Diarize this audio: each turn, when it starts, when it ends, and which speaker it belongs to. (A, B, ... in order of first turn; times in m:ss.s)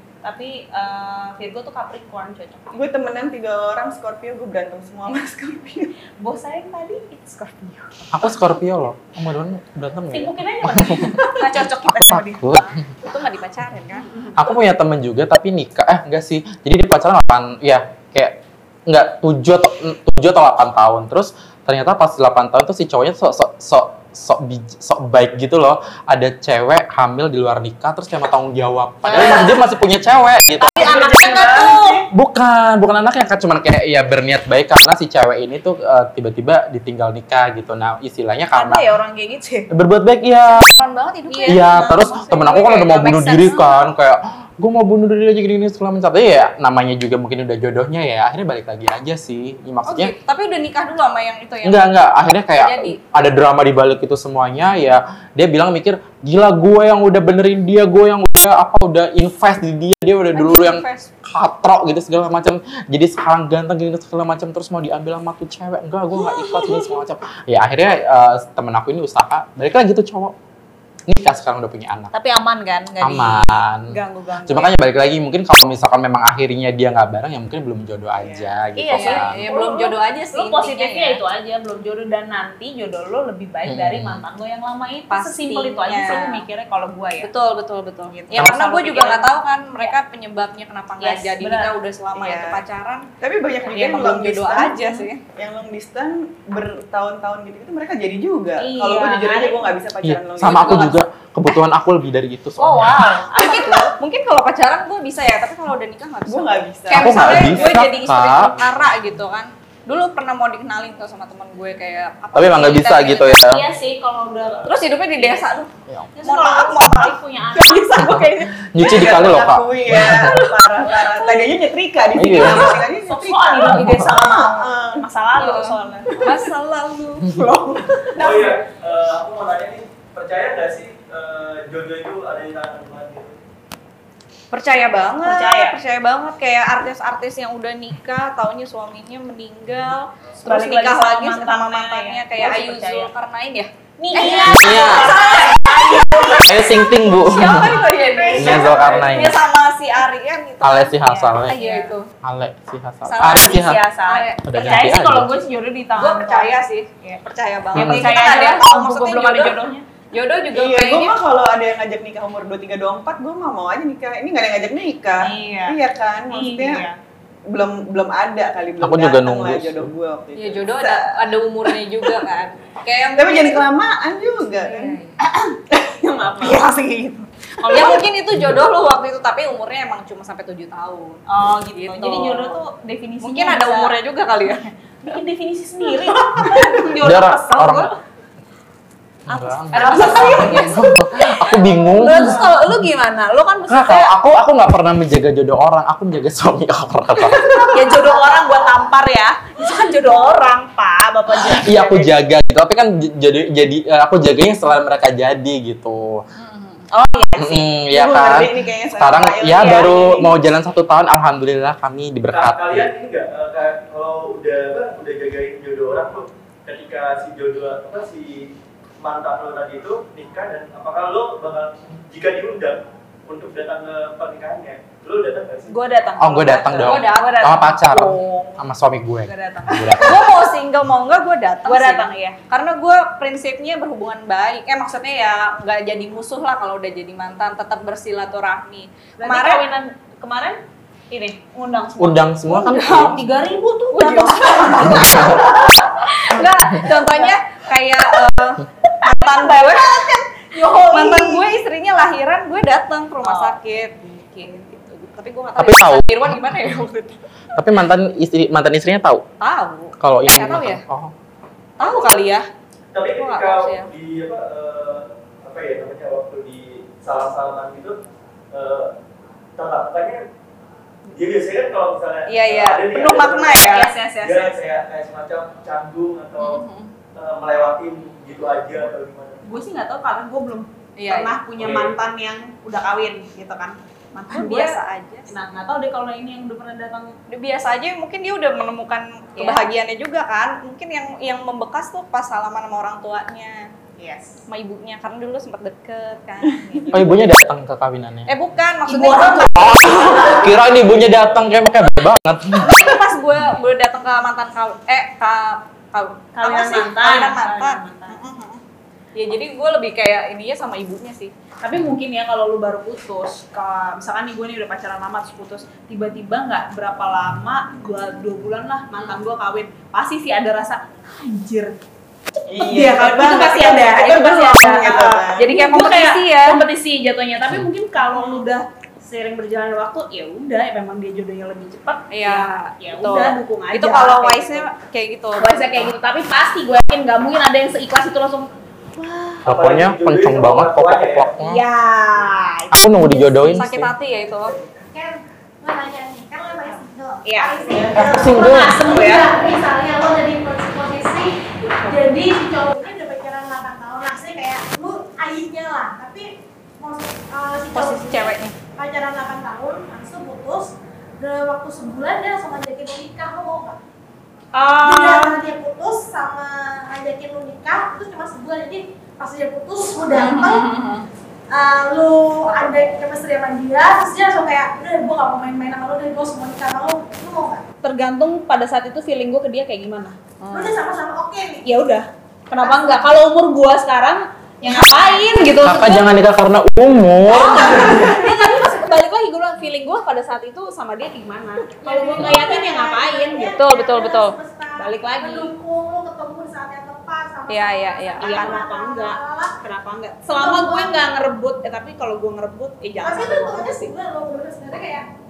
0:00.2-0:02.8 A
0:02.7-0:05.9 B
0:06.2-0:08.3 A
0:08.1-0:11.2 C
0:10.1-0:12.4 A
0:11.4-0:14.1 D
0:12.1-0:12.7 C
0:14.4-0:30.9 C
0:29.1-0:29.5 A
0:30.6-0:32.0 A
0:30.8-0:31.9 B
0:31.1-0:31.7 D
0:32.1-0:38.9 C
0:38.5-0:39.7 A
0:39.7-0:40.7 C
0:40.4-0:41.9 D
0:41.3-0:43.9 A
0:41.5-0:50.1 C
0:49.9-0:51.9 D
0:51.6-1:10.4 C
0:52.5-0:53.0 D
1:00.3-1:01.1 D
1:11.1-1:12.1 C
1:12.1-1:14.7 A
1:13.0-1:19.4 C
1:18.2-1:18.5 B
1:18.8-1:27.3 A
1:18.9-1:21.2 D
1:23.7-1:24.2 C
1:25.1-1:26.4 D
1:27.2-1:33.1 D
1:28.1-1:29.3 A
1:31.0-1:31.7 A
1:32.2-1:32.6 B
1:33.2-1:41.0 B
1:33.6-1:35.2 D
1:38.6-1:39.8 A
1:40.0-1:43.0 C
1:40.4-1:41.0 D
1:42.6-1:43.9 A
1:43.3-1:53.4 D
1:46.3-1:47.9 B
1:46.9-1:48.7 C
1:52.4-1:53.6 C
1:53.5-1:55.5 A
1:54.6-1:55.7 D
1:56.1-1:58.6 A
1:56.2-1:57.1 D
1:58.0-2:00.4 C
1:58.8-2:05.0 B
2:00.0-2:00.3 A
2:02.2-2:02.8 C
2:02.3-2:06.4 A
2:03.7-2:04.1 C
2:05.4-2:07.3 D
2:07.3-2:08.2 A
2:08.2-2:08.6 B
2:08.2-2:13.4 E
2:14.5-2:32.1 D
2:15.2-2:15.8 A
2:20.4-2:23.1 A
2:24.0-2:26.8 A
2:24.5-2:25.2 C
2:26.5-2:27.8 C
2:27.9-2:29.0 A
2:28.4-2:29.4 C
2:30.6-2:31.6 C
2:31.0-2:32.0 A
2:32.2-2:33.8 C
2:33.1-2:34.4 D
2:33.2-2:37.2 A
2:34.4-2:35.3 C
2:36.0-2:39.6 D
2:37.8-2:38.2 C
2:37.8-2:39.8 A
2:40.1-2:41.2 D
2:40.5-2:46.9 B
2:45.2-2:45.8 A
2:46.3-2:47.0 A
2:47.5-2:51.3 B
2:48.8-2:49.9 C
2:50.4-2:53.7 D
2:53.2-2:55.0 B
2:54.6-2:55.1 D
2:55.7-2:56.7 B
2:56.4-2:58.0 A
2:57.7-3:02.6 D
3:01.3-3:03.9 A
3:03.2-3:04.7 D
3:05.0-3:08.0 A
3:06.1-3:06.5 D
3:07.0-3:07.9 C
3:09.3-3:12.5 C
3:09.3-3:14.1 A
3:09.7-3:10.8 D
3:13.7-3:17.8 C
3:17.4-3:22.2 A
3:21.4-3:26.2 C
3:26.4-3:26.9 D
3:26.9-3:27.7 A
3:27.4-3:32.9 C
3:27.9-3:30.3 B
3:29.6-3:30.1 A
3:32.3-3:45.8 E
3:45.7-3:48.6 A
3:46.2-3:50.2 C
3:46.8-3:47.4 D
3:49.2-3:50.1 A
3:50.0-3:59.6 D
3:51.6-3:52.4 A
3:59.2-4:07.4 A
4:02.0-4:03.2 C
4:02.7-4:03.2 D
4:03.9-4:10.2 D
4:04.8-4:05.4 C
4:09.0-4:11.6 A
4:10.8-4:17.2 D
4:13.2-4:13.6 A
4:15.6-4:16.6 C
4:17.6-4:19.2 C
4:19.4-4:20.8 D
4:20.0-4:21.1 C
4:21.8-4:22.5 D
4:22.9-4:28.0 E
4:23.1-4:23.9 D
4:28.5-4:28.9 E
4:29.6-4:30.2 E
4:31.1-4:39.4 E
4:32.3-4:33.9 D
4:33.6-4:34.6 A
4:36.4-4:36.9 D
4:39.4-4:47.1 A
4:41.0-4:41.4 D
4:41.5-4:42.0 E
4:44.3-4:45.3 D
4:47.3-4:53.6 D
4:49.4-4:49.6 A
4:54.0-4:54.4 A
4:54.5-4:56.9 D
4:56.9-4:58.3 C
4:58.3-5:00.5 D
4:58.9-5:00.5 A
4:59.6-5:02.8 C
5:02.6-5:08.6 D
5:06.4-5:08.2 A
5:09.1-5:11.3 D
5:11.6-5:21.8 A
5:22.5-5:25.5 B
5:22.6-5:34.7 A
5:25.4-5:26.6 D
5:32.1-5:35.9 D
5:35.4-5:39.4 A
5:39.4-5:41.6 C
5:39.5-5:41.3 E
5:41.4-5:43.6 A
5:42.7-5:43.9 C
5:43.4-5:44.6 D
5:44.9-6:03.8 F
5:47.2-5:49.4 A
5:48.0-5:48.8 C
5:57.7-5:58.5 D
6:04.5-6:05.4 D
6:04.8-6:10.6 F
6:10.1-6:11.1 D
6:11.5-6:17.6 F
6:17.8-6:20.2 A
6:20.4-6:20.9 D
6:20.5-6:21.8 F
6:21.6-6:26.0 A
6:22.6-6:23.2 F
6:24.6-6:25.6 F
6:25.6-6:28.0 C
6:27.3-6:33.6 A
6:27.4-6:27.8 D
6:27.4-6:29.0 F
6:31.8-6:39.6 F
6:33.4-6:34.4 D
6:34.8-6:35.5 A
6:37.5-6:38.4 D
6:38.2-6:44.0 A
6:40.3-6:41.0 F
6:43.0-6:45.1 F